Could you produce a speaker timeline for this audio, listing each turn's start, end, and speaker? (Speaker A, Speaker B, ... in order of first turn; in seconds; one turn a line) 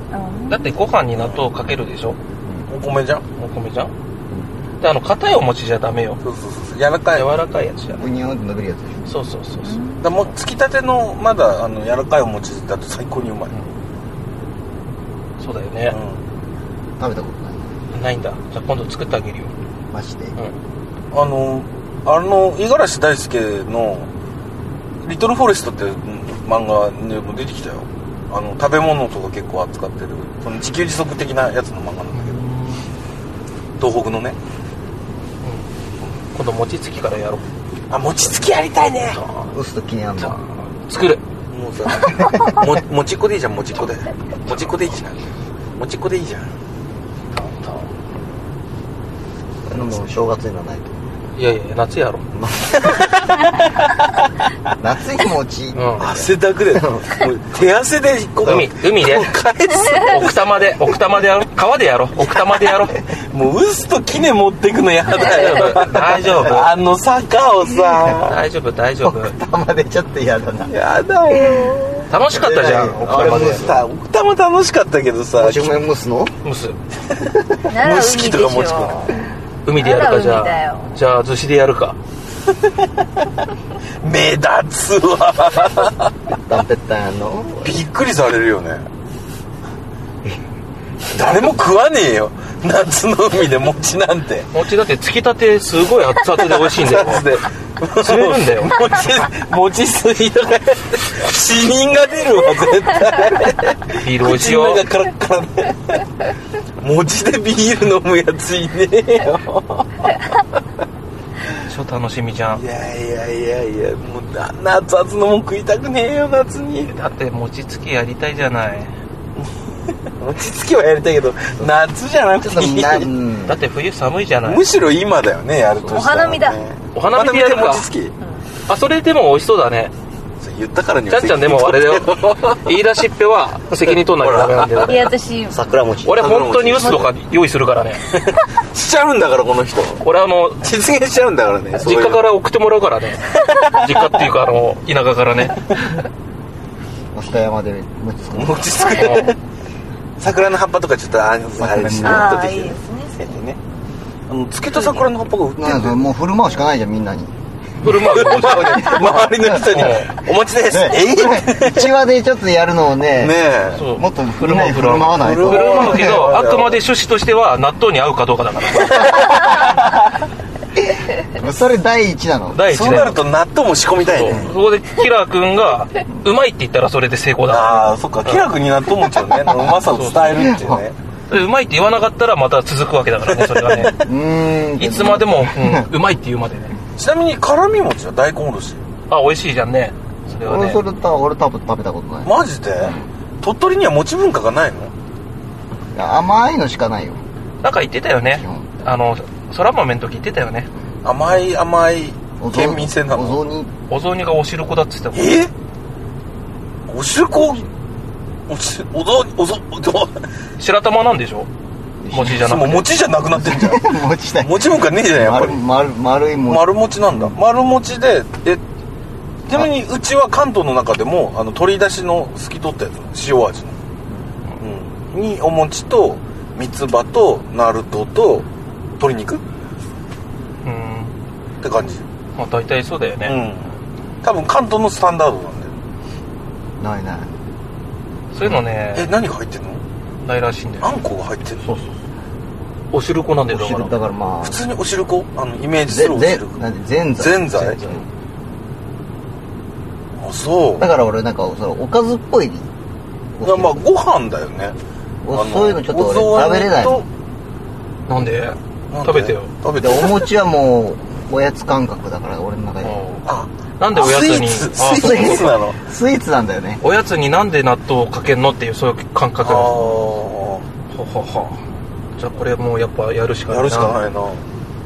Speaker A: 0.1-0.8
Speaker B: 0.5-2.2
Speaker C: 1.1-1.4
Speaker C: 2.7-3.2
Speaker B: 3.4-3.9
Speaker B: 4.8-6.2
Speaker C: 6.2-7.3
Speaker B: 7.1-8.0
Speaker D: 7.9-9.2
Speaker B: 9.1-9.8
Speaker A: 9.6-10.0
Speaker C: 10.0-13.5
Speaker B: 15.4-16.0
Speaker C: 15.9-16.2
Speaker D: 17.0-17.7
Speaker B: 17.9-19.5
Speaker D: 19.9-20.4
Speaker C: 21.1-24.1
Speaker C: 25.0-32.4
Speaker B: 32.1-32.9
Speaker C: 33.8-34.4
Speaker B: 35.4-35.7
Speaker B: 36.3-37.5
Speaker C: 37.9-39.2
Speaker B: 39.1-39.5
Speaker D: 39.5-40.4
Speaker B: 40.2-41.2
Speaker C: 41.5-46.5
Speaker D: 42.2-42.5
Speaker B: 47.3-47.9
Speaker D: 49.7-51.0
Speaker B: 51.4-52.3
Speaker D: 52.3-53.3
Speaker D: 54.8-57.1
Speaker B: 55.8-56.1
Speaker C: 56.0-60.8
Speaker B: 58.4-59.3
Speaker B: 59.9-63.0
Speaker C: 63.1-68.4
Speaker B: 65.1-66.8
Speaker B: 68.2-69.3
Speaker D: 69.0-70.8
Speaker C: 70.7-75.8
Speaker A: 71.3-72.0
Speaker B: 72.1-73.8
Speaker D: 72.3-73.8
Speaker D: 75.4-76.3
Speaker B: 76.4-76.8
Speaker C: 77.2-79.1
Speaker A: 77.7-81.0
Speaker B: 79.7-82.0
Speaker C: 84.0-86.1
Speaker D: 86.4-87.8
Speaker C: 87.6-88.9
Speaker C: 91.1-94.5
Speaker B: 94.5-97.3
Speaker C: 96.4-106.0
Speaker B: 98.0-98.8
Speaker B: 103.9-104.8
Speaker C: 106.8-110.2
Speaker B: 111.5-112.6
Speaker C: 112.5-116.9
Speaker B: 116.9-118.9
Speaker C: 120.2-123.1
Speaker D: 122.4-123.6
Speaker B: 123.5-124.6
Speaker C: 124.4-128.1
Speaker A: 125.8-126.6
Speaker B: 127.0-127.9
Speaker A: 128.2-128.5
Speaker B: 128.7-129.9
Speaker C: 130.4-132.7
Speaker B: 131.1-135.1
Speaker C: 134.1-135.1
Speaker A: 134.8-135.6
Speaker D: 135.5-136.3
Speaker B: 136.0-138.0
Speaker C: 136.2-137.1
Speaker C: 138.1-140.0
Speaker B: 140.0-140.6
Speaker C: 140.6-142.3
Speaker B: 141.8-145.8
Speaker D: 147.1-149.0
Speaker C: 148.3-149.4
Speaker B: 148.9-149.3
Speaker C: 150.2-153.6
Speaker D: 151.6-152.4
Speaker A: 152.0-153.3
Speaker C: 154.3-156.1
Speaker A: 154.7-155.1
Speaker D: 155.6-157.3
Speaker B: 157.8-159.0
Speaker C: 157.9-161.9
Speaker D: 158.7-160.1
Speaker B: 159.6-160.1
Speaker D: 160.7-166.2
Speaker C: 163.2-163.9
Speaker B: 163.7-169.6
Speaker C: 165.2-166.8
Speaker C: 169.1-169.8
Speaker D: 170.8-172.6
Speaker B: 172.5-173.2
Speaker C: 172.7-174.5
Speaker B: 173.9-178.5
Speaker D: 174.2-174.5
Speaker C: 177.5-181.0
Speaker D: 179.3-179.8
Speaker B: 179.8-180.6
Speaker D: 180.4-180.8
Speaker B: 181.3-184.0
Speaker C: 183.3-184.0
Speaker D: 184.0-185.9
Speaker B: 184.8-186.7
Speaker C: 187.0-188.8
Speaker B: 189.1-190.8
Speaker D: 190.3-193.1
Speaker C: 192.2-194.9
Speaker D: 195.9-197.2
Speaker B: 197.6-200.7
Speaker D: 198.3-198.7
Speaker C: 201.0-203.4
Speaker D: 202.4-203.7
Speaker B: 203.9-205.4
Speaker C: 205.1-205.5
Speaker C: 206.9-207.7
Speaker C: 208.5-210.3
Speaker B: 210.6-211.5
Speaker D: 212.0-212.5
Speaker B: 212.1-212.9
Speaker C: 212.4-215.6
Speaker D: 213.2-217.3
Speaker C: 216.5-218.6
Speaker C: 219.5-223.8
Speaker C: 224.6-228.5
Speaker C: 229.0-229.4
Speaker B: 230.6-231.1
Speaker C: 231.6-232.1
Speaker B: 232.3-233.4
Speaker C: 233.3-235.7
Speaker D: 236.8-237.3
Speaker B: 238.3-239.1
Speaker C: 238.9-239.8
Speaker B: 240.2-240.9
Speaker C: 240.8-241.7
Speaker D: 241.6-241.9
Speaker B: 242.9-244.0
Speaker D: 243.5-244.7
Speaker C: 244.4-246.6
Speaker D: 245.9-248.1
Speaker C: 247.2-247.9
Speaker C: 250.2-250.9
Speaker D: 250.8-252.7
Speaker D: 253.3-253.8
Speaker C: 253.4-254.8
Speaker D: 255.2-257.0
Speaker C: 255.3-257.1
Speaker B: 258.1-259.5
Speaker C: 258.9-260.3
Speaker D: 259.7-263.0
Speaker B: 262.8-263.3
Speaker C: 263.3-265.8
Speaker B: 263.8-265.5
Speaker D: 264.9-266.8
Speaker B: 266.8-270.1
Speaker C: 269.4-270.7
Speaker B: 270.9-271.6
Speaker B: 272.1-274.0
Speaker C: 273.5-274.4